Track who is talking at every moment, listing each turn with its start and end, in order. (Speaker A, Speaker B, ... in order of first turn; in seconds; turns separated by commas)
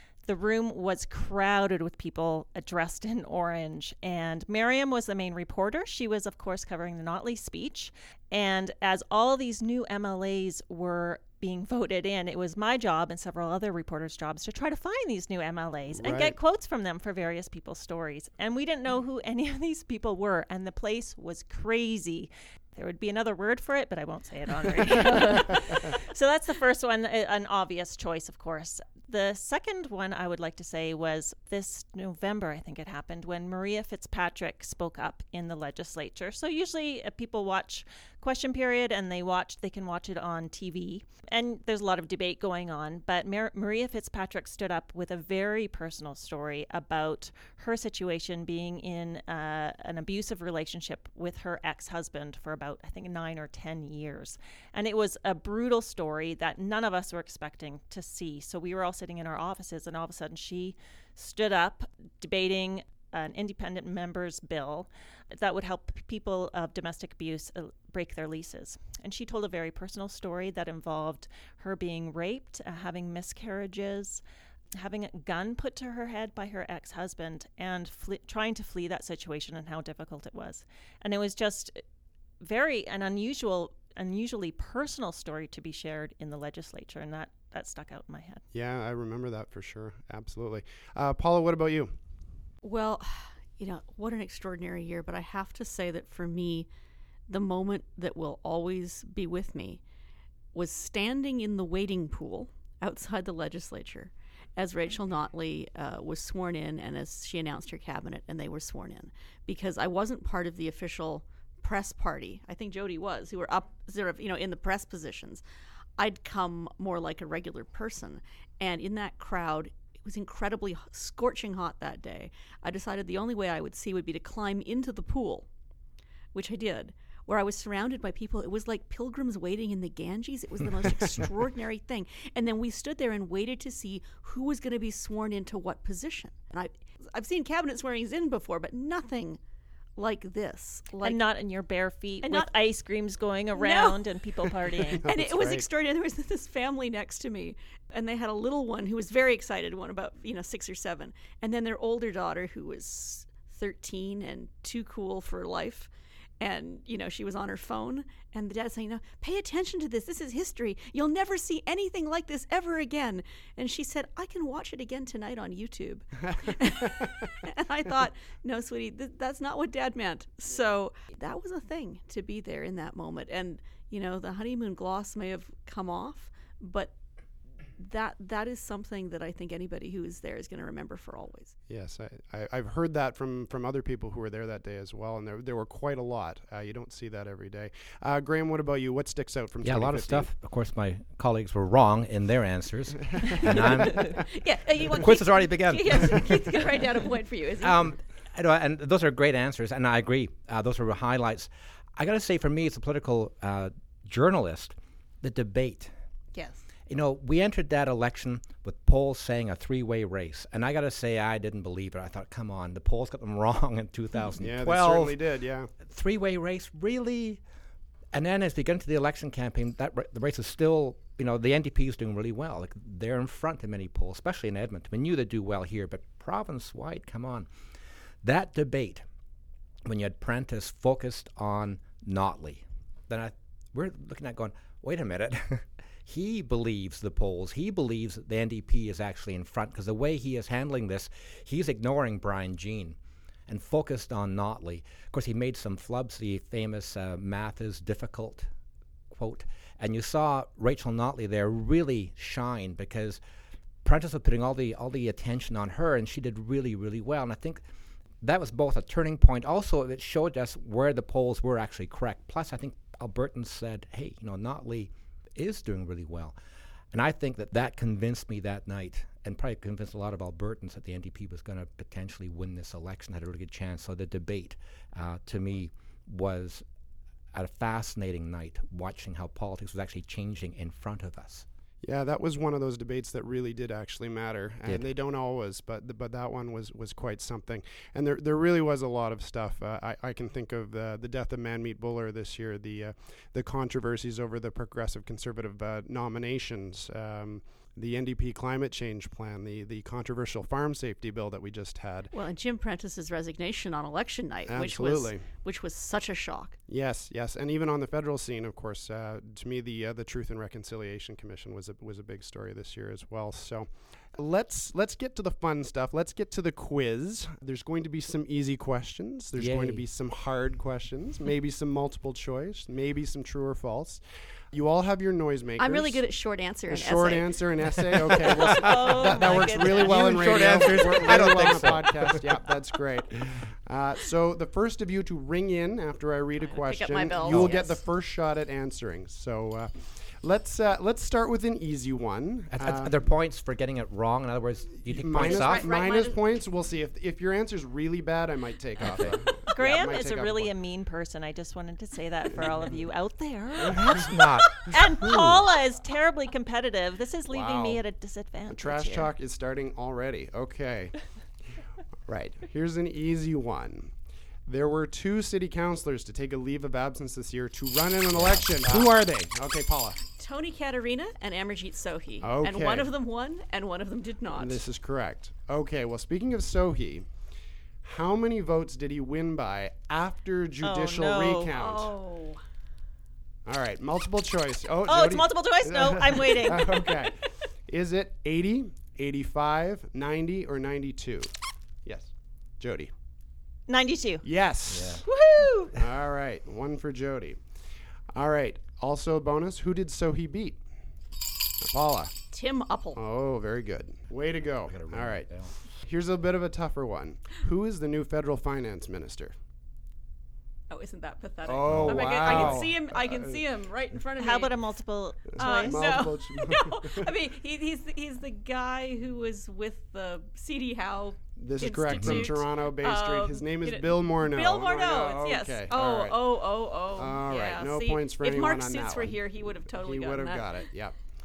Speaker A: 0.2-74.2, Speaker B: 16.0-16.3, Speaker A: 74.7-81.8, Speaker A: 82.4-88.4, Speaker B: 88.5-91.9, Speaker C: 92.6-96.7, Speaker C: 97.3-99.8, Speaker C: 100.5-115.4, Speaker C: 116.0-125.5, Speaker C: 126.3-139.4, Speaker C: 140.0-141.2, Speaker A: 141.0-145.0, Speaker C: 142.2-142.5, Speaker C: 143.5-144.0, Speaker B: 144.9-145.6, Speaker C: 145.0-176.9, Speaker C: 177.8-181.5, Speaker B: 181.7-190.3, Speaker D: 189.6-194.3, Speaker B: 193.2-194.2, Speaker C: 194.2-197.9, Speaker D: 194.9-196.8, Speaker D: 197.6-205.9, Speaker C: 206.3-206.6, Speaker D: 206.9-215.2, Speaker B: 214.4-215.7, Speaker D: 215.8-217.4, Speaker D: 218.1-227.5, Speaker D: 228.2-229.0, Speaker D: 229.8-248.5, Speaker D: 249.1-253.2, Speaker D: 253.8-257.6, Speaker D: 258.2-266.3, Speaker D: 266.9-276.6, Speaker D: 277.3-281.4, Speaker B: 281.8-302.1, Speaker C: 302.1-306.6, Speaker B: 304.5-305.2, Speaker B: 306.7-326.0, Speaker D: 319.4-319.9, Speaker C: 325.6-327.4, Speaker B: 326.7-342.9, Speaker D: 327.9-332.3, Speaker A: 328.4-330.8, Speaker C: 336.4-337.8, Speaker D: 337.2-337.6, Speaker D: 342.5-345.6, Speaker B: 344.9-350.5, Speaker C: 345.2-346.2, Speaker D: 348.8-349.2, Speaker A: 349.5-359.1, Speaker D: 353.6-355.4, Speaker B: 357.3-357.8, Speaker B: 358.5-360.9, Speaker B: 362.1-363.9, Speaker B: 364.4-370.0, Speaker D: 368.1-368.9, Speaker C: 370.1-374.6, Speaker B: 372.2-372.9, Speaker B: 374.3-377.1, Speaker B: 377.8-381.9, Speaker A: 380.6-381.5, Speaker C: 381.5-382.4, Speaker B: 383.4-391.3, Speaker A: 384.9-387.0, Speaker B: 391.8-392.9, Speaker A: 393.7-394.2, Speaker B: 394.2-395.0, Speaker D: 394.7-395.0, Speaker A: 395.0-395.8, Speaker B: 395.7-397.4, Speaker B: 398.1-400.6, Speaker B: 401.6-402.1, Speaker C: 402.3-403.0, Speaker B: 402.9-409.3, Speaker D: 404.7-405.5, Speaker C: 410.7-414.6, Speaker B: 411.4-413.4, Speaker D: 411.7-412.7, Speaker A: 414.2-416.0, Speaker B: 415.3-417.1, Speaker C: 415.4-430.6, Speaker B: 421.4-426.4, Speaker D: 421.9-422.4, Speaker B: 426.9-430.9